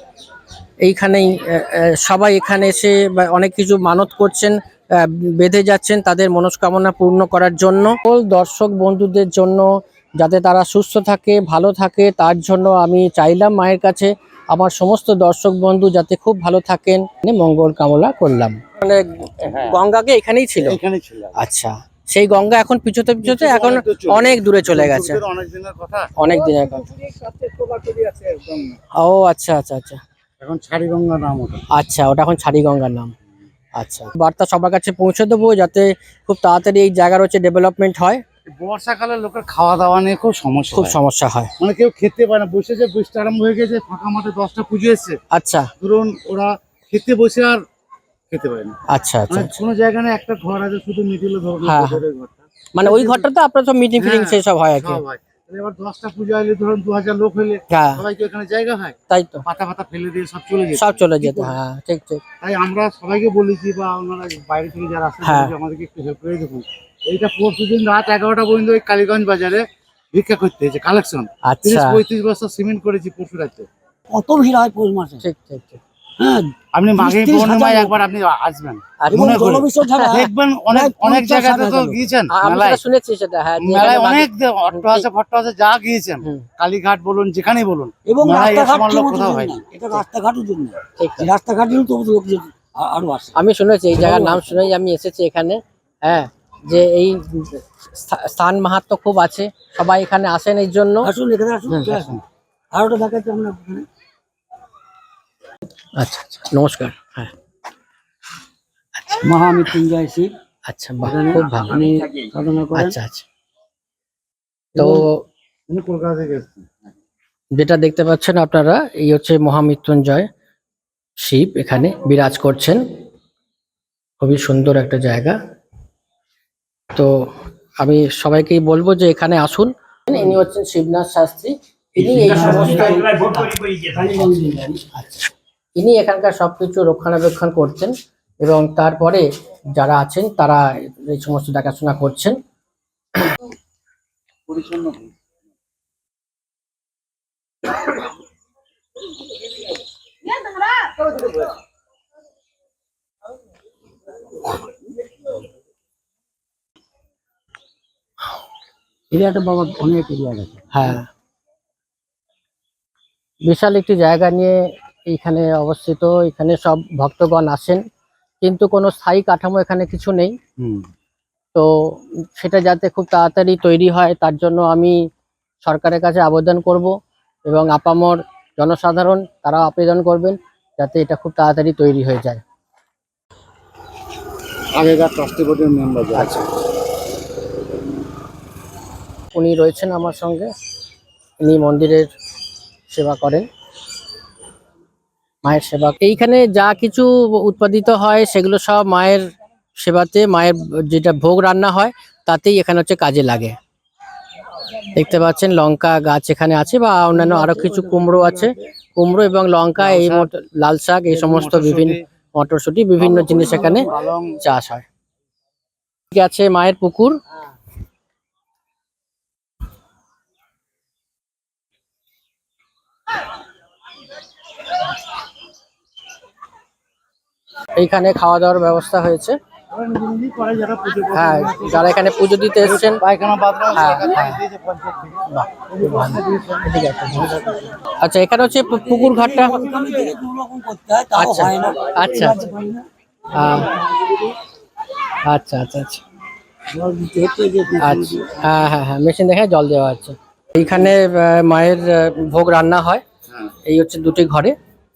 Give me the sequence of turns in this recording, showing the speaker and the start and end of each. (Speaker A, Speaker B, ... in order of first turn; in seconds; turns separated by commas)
Speaker A: 0.8-20.8, Speaker B: 19.4-19.7, Speaker B: 20.6-21.4, Speaker A: 21.4-25.2, Speaker B: 23.2-26.1, Speaker A: 26.2-26.9, Speaker B: 26.9-28.8, Speaker A: 28.9-30.0, Speaker B: 30.4-31.6, Speaker A: 31.7-33.1, Speaker A: 33.8-38.2, Speaker B: 38.5-41.0, Speaker A: 40.7-41.5, Speaker B: 41.6-45.2, Speaker A: 45.3-45.7, Speaker B: 45.8-47.6, Speaker B: 48.3-48.8, Speaker A: 48.9-49.5, Speaker B: 49.3-53.2, Speaker A: 51.6-52.0, Speaker A: 52.7-55.0, Speaker B: 54.0-61.5, Speaker A: 57.7-58.0, Speaker A: 59.1-59.5, Speaker A: 60.7-62.2, Speaker B: 62.4-73.7, Speaker A: 65.2-65.5, Speaker A: 71.4-72.0, Speaker C: 74.1-75.2, Speaker A: 75.2-75.8, Speaker C: 76.2-78.0, Speaker B: 76.7-82.8, Speaker A: 79.0-80.1, Speaker C: 79.1-82.0, Speaker A: 82.3-85.0, Speaker B: 83.6-89.6, Speaker C: 88.1-93.3, Speaker A: 91.0-91.3, Speaker A: 93.3-101.1, Speaker C: 93.9-94.6, Speaker C: 101.0-102.2, Speaker A: 101.7-102.0, Speaker C: 102.7-103.8, Speaker A: 106.0-107.3, Speaker C: 109.2-110.3, Speaker A: 110.7-111.9, Speaker C: 111.0-113.0, Speaker A: 112.7-113.2, Speaker A: 114.8-115.2, Speaker C: 114.8-115.0, Speaker B: 115.7-116.7, Speaker A: 117.5-120.3, Speaker A: 121.2-122.8, Speaker A: 124.2-125.4, Speaker A: 126.9-127.3, Speaker A: 127.8-133.6, Speaker C: 132.0-134.8, Speaker A: 134.9-142.4, Speaker B: 144.5-145.1, Speaker C: 159.1-160.8, Speaker A: 160.7-161.1, Speaker A: 163.4-167.8, Speaker A: 168.4-170.3, Speaker A: 171.5-174.9, Speaker A: 175.6-176.9, Speaker A: 177.4-182.4, Speaker B: 184.7-186.4, Speaker A: 189.3-190.5, Speaker A: 191.4-192.1, Speaker A: 192.9-193.4, Speaker A: 195.4-199.2, Speaker A: 199.8-203.6, Speaker A: 204.9-213.9, Speaker C: 207.1-208.7, Speaker B: 209.8-210.3, Speaker B: 211.1-212.0, Speaker B: 213.0-214.3, Speaker A: 214.4-214.8, Speaker A: 216.1-217.2, Speaker A: 227.8-229.3, Speaker B: 229.7-231.9, Speaker A: 231.1-233.0, Speaker B: 232.6-237.4, Speaker A: 233.7-234.4, Speaker A: 235.3-237.4, Speaker A: 238.0-239.6, Speaker C: 239.0-242.8, Speaker A: 241.2-242.4, Speaker A: 243.3-243.7, Speaker A: 245.2-246.0, Speaker C: 246.7-248.4, Speaker A: 247.8-253.0, Speaker A: 253.7-254.5